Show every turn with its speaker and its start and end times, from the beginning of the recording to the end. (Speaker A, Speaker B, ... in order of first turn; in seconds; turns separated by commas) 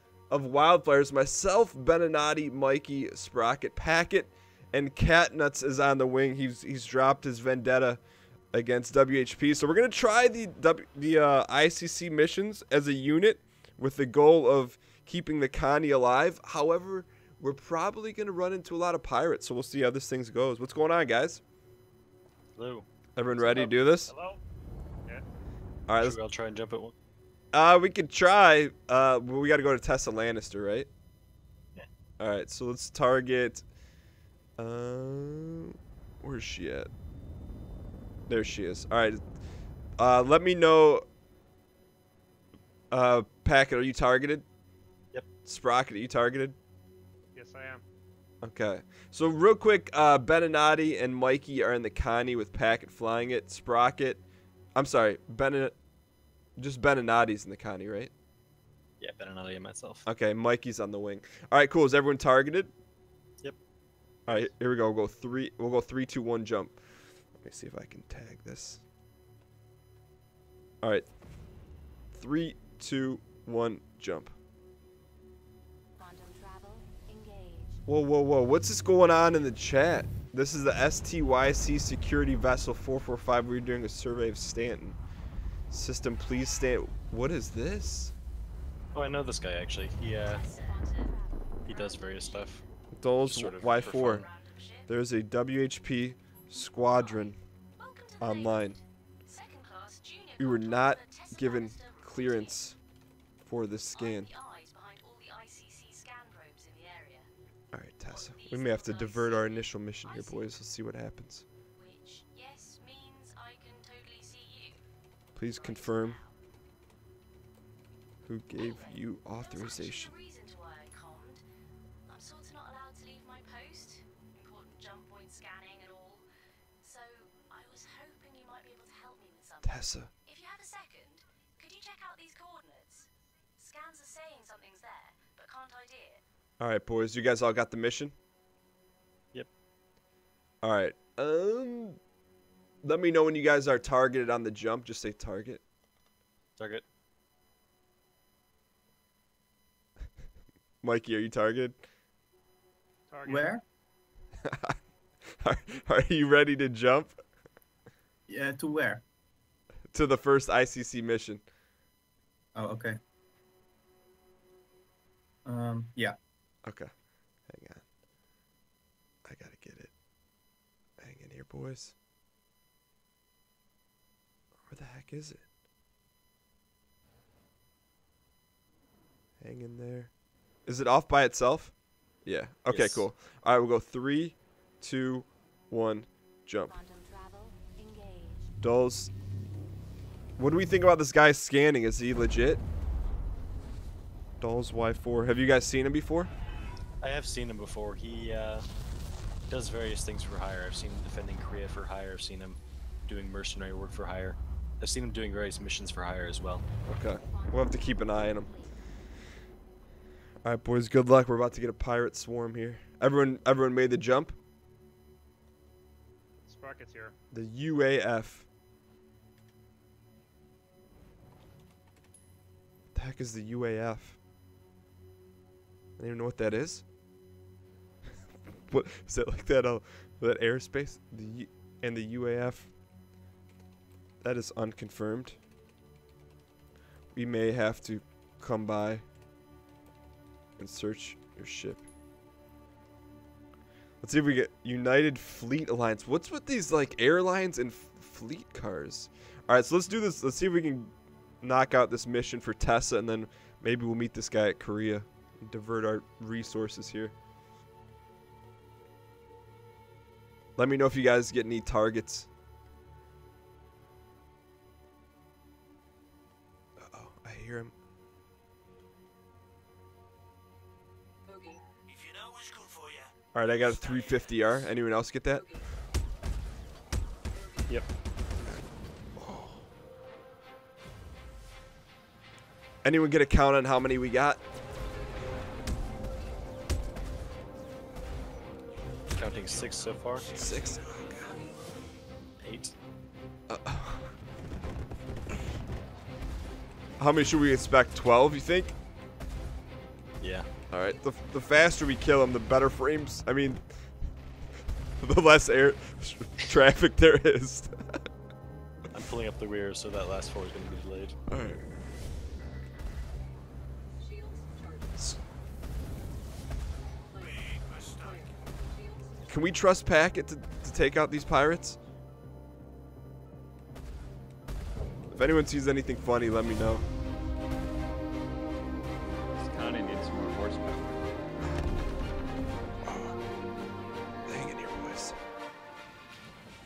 Speaker A: 0.3-8.0, Speaker A: 8.5-21.4, Speaker B: 22.5-22.9, Speaker A: 23.1-24.1, Speaker B: 23.4-23.7, Speaker C: 24.1-24.4, Speaker A: 25.9-26.2, Speaker B: 26.0-26.9, Speaker A: 27.5-30.9, Speaker A: 32.2-33.6, Speaker A: 34.6-36.9, Speaker A: 38.3-39.2, Speaker A: 40.0-41.0, Speaker A: 42.9-44.5, Speaker A: 45.4-46.6, Speaker C: 47.3-47.8, Speaker A: 48.4-54.2, Speaker A: 54.8-55.8, Speaker A: 56.6-58.1, Speaker B: 59.0-60.0, Speaker A: 60.0-62.7, Speaker A: 64.3-66.8, Speaker A: 67.3-68.8, Speaker A: 70.8-71.1, Speaker A: 72.1-74.3, Speaker D: 76.0-77.7, Speaker A: 77.9-85.0, Speaker A: 85.7-88.1, Speaker B: 88.9-90.4, Speaker D: 90.3-92.5, Speaker B: 91.6-92.6, Speaker A: 92.9-94.3, Speaker B: 93.2-94.3, Speaker D: 94.3-94.8, Speaker A: 94.9-97.4, Speaker D: 97.0-98.6, Speaker A: 98.2-98.8, Speaker D: 99.2-102.5, Speaker A: 100.4-102.8, Speaker A: 103.4-104.3, Speaker D: 103.9-107.3, Speaker A: 107.7-111.4, Speaker D: 108.1-110.5, Speaker D: 111.8-114.8, Speaker A: 115.3-116.2, Speaker D: 115.5-116.4, Speaker A: 118.2-120.1, Speaker D: 118.6-121.4, Speaker D: 122.1-126.2, Speaker D: 126.8-129.7, Speaker A: 129.6-130.1, Speaker D: 130.2-136.2, Speaker A: 136.6-138.1, Speaker A: 140.6-142.0, Speaker A: 142.8-145.6, Speaker B: 146.6-146.8, Speaker A: 150.8-151.8, Speaker C: 153.1-153.5, Speaker E: 153.3-153.6, Speaker A: 154.4-154.7, Speaker A: 155.4-157.2, Speaker E: 158.3-159.0, Speaker A: 159.9-161.4, Speaker E: 162.6-162.9, Speaker E: 165.5-166.1, Speaker A: 166.7-166.9, Speaker A: 167.5-167.8, Speaker A: 169.2-169.9, Speaker A: 171.0-171.9, Speaker A: 174.7-175.4, Speaker A: 179.4-180.1, Speaker A: 180.7-181.7, Speaker A: 182.2-186.7, Speaker B: 182.7-183.1, Speaker D: 186.7-188.4, Speaker F: 186.8-187.8, Speaker A: 188.6-189.1, Speaker A: 190.4-192.6, Speaker A: 194.4-196.3, Speaker B: 197.0-198.7, Speaker B: 199.5-206.7, Speaker A: 206.8-208.5, Speaker F: 208.4-208.7, Speaker A: 210.4-214.4, Speaker C: 216.4-217.1, Speaker A: 217.3-218.5, Speaker A: 222.9-224.2, Speaker A: 226.0-226.8, Speaker A: 228.7-232.7, Speaker A: 234.2-235.4, Speaker A: 237.1-239.0, Speaker A: 240.6-241.8, Speaker A: 244.0-257.1, Speaker A: 260.6-262.3, Speaker A: 266.8-267.7, Speaker A: 273.3-275.5, Speaker A: 279.2-279.6, Speaker A: 282.8-284.4, Speaker B: 289.1-290.3, Speaker A: 290.3-291.4, Speaker B: 292.4-292.7, Speaker A: 293.5-294.1, Speaker A: 297.0-298.8, Speaker B: 300.2-300.5, Speaker A: 300.7-303.6, Speaker A: 305.0-307.7, Speaker B: 308.9-311.1, Speaker A: 311.3-311.6, Speaker A: 319.3-321.8, Speaker A: 325.1-326.9, Speaker F: 329.4-331.1, Speaker A: 332.8-333.1, Speaker A: 334.2-335.2